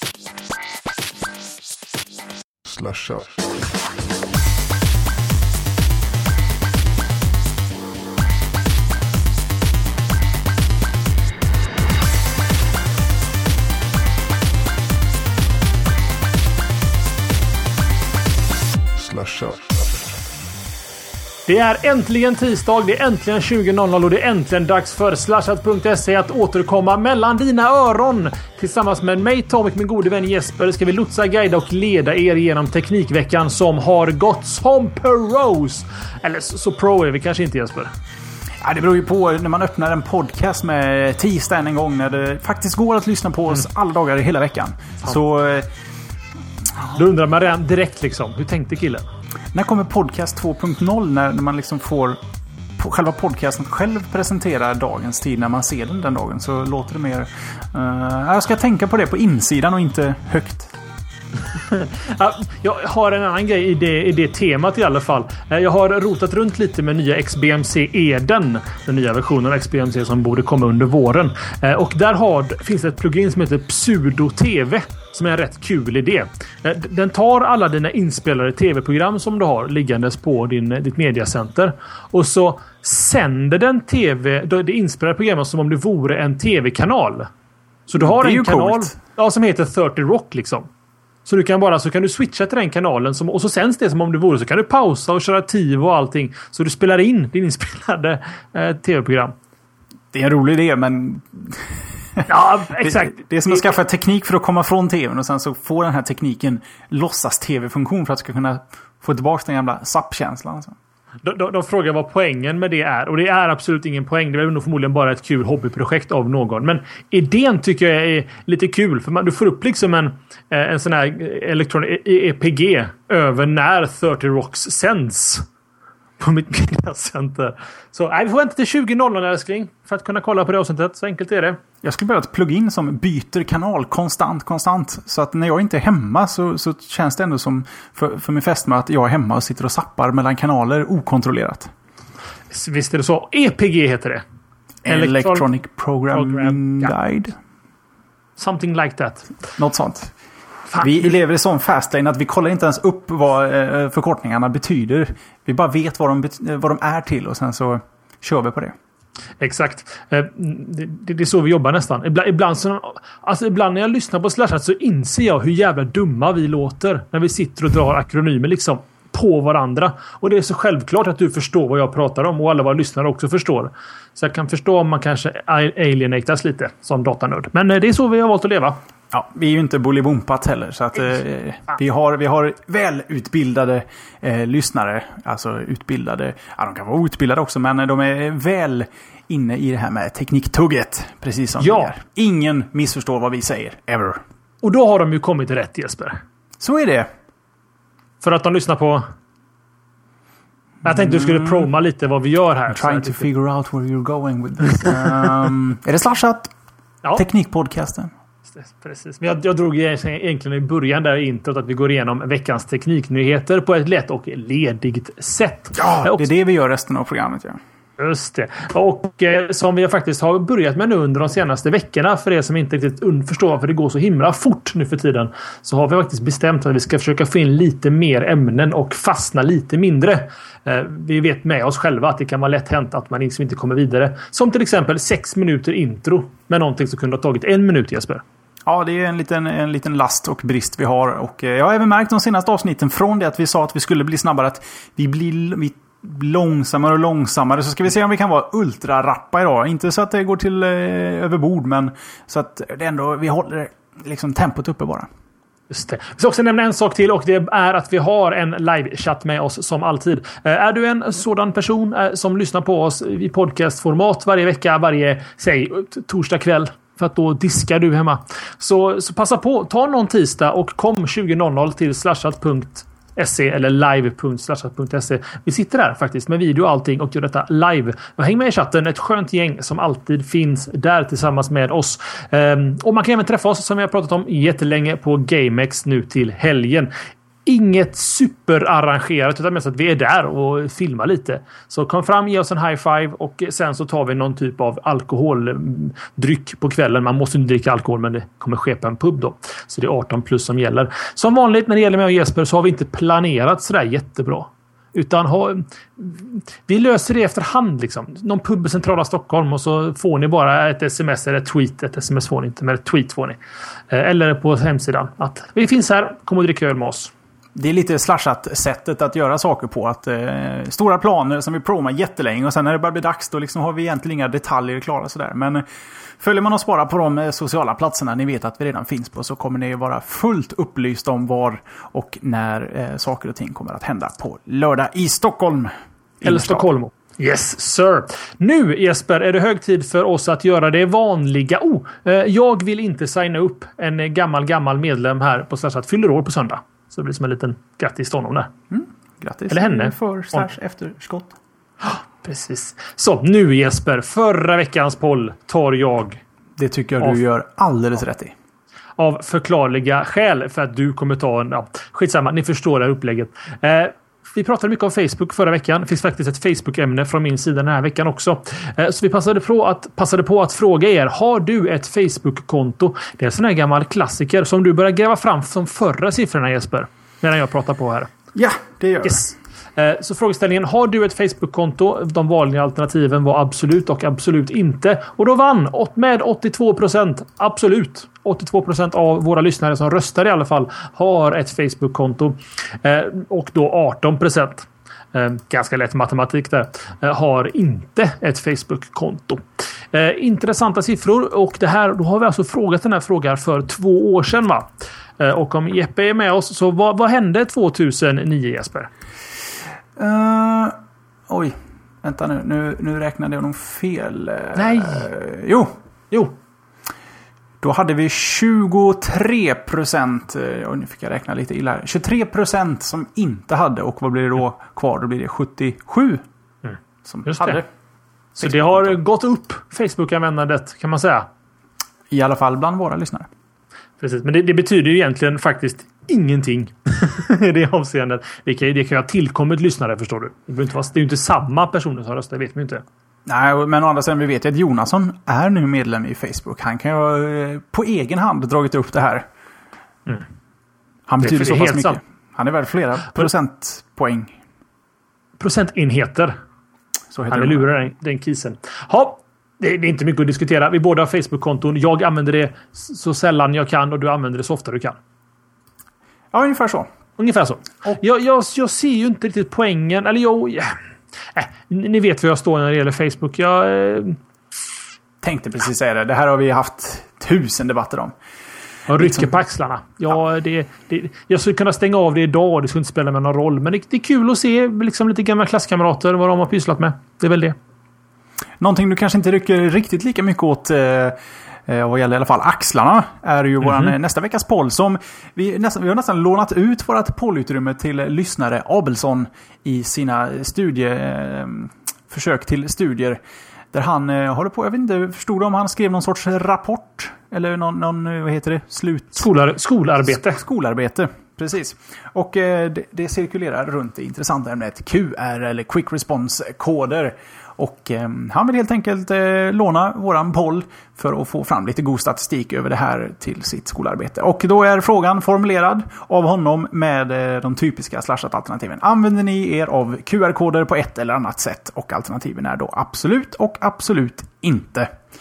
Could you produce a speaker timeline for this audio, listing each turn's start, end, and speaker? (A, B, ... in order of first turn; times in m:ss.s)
0:00.6-0:01.1 A
0:02.6-0:03.6 A
0:18.9-0:20.1 A
0:21.5-0:37.9 B
0:38.6-0:45.7 C
0:46.8-0:49.0 B
0:49.5-0:52.2 C
0:52.8-1:00.7 C
1:01.7-1:27.3 B
1:27.9-1:30.7 B
1:28.0-1:28.9 C
1:31.2-1:39.3 B
1:40.1-1:50.8 C
1:42.3-1:43.8 B
1:51.2-2:05.4 B
2:06.2-2:11.6 B
2:11.8-2:21.7 C
2:22.5-2:24.2 B
2:24.8-2:27.4 C
2:24.9-2:25.4 B
2:26.1-2:26.9 B
2:28.4-2:29.3 B
2:29.6-2:30.1 C
2:30.8-2:38.7 C
2:39.4-2:58.8 B
2:59.1-3:14.2 C
3:11.6-3:11.9 B
3:14.6-3:16.2 B
3:16.6-3:17.1 C
3:18.2-3:19.0 B
3:20.8-3:21.7 C
3:20.8-3:23.3 B
3:22.7-3:26.5 C
3:27.2-3:28.1 C
3:28.5-3:36.2 B
3:35.7-3:37.6 C
3:38.0-3:58.2 B
3:58.6-4:15.1 C
4:15.7-4:46.9 B
4:47.4-5:13.4 B
5:13.9-5:17.1 B
5:17.5-5:25.6 C
5:26.2-5:36.7 C
5:36.2-5:48.5 B
5:48.7-5:51.4 C
5:49.5-5:50.4 B
5:51.8-5:56.2 B
5:56.6-5:58.3 C
5:59.0-6:18.1 B
6:18.3-6:19.3 C
6:19.0-6:44.7 B
6:45.2-6:48.9 B
6:50.0-6:50.8 C
6:51.3-6:55.7 C
6:54.6-6:55.1 B
6:57.6-7:06.2 C
7:06.6-7:07.6 B
7:07.0-7:07.6 C
7:08.3-7:11.3 B
7:08.4-7:09.0 C
7:12.1-7:13.3 C
7:14.0-7:22.8 B
7:23.2-7:29.3 C
7:31.1-7:34.3 C
7:31.2-7:32.0 B
7:35.4-7:36.3 B
7:37.1-7:37.7 C
7:37.3-7:45.0 B
7:46.3-7:46.9 C
7:47.2-7:50.8 B
7:51.3-7:54.2 B
7:55.2-7:58.1 C
7:58.9-8:07.6 B
7:58.9-7:59.3 C
8:08.6-8:23.2 C
8:13.6-8:13.9 B
8:23.7-8:29.2 C
8:29.2-8:30.4 B
8:30.1-8:54.9 C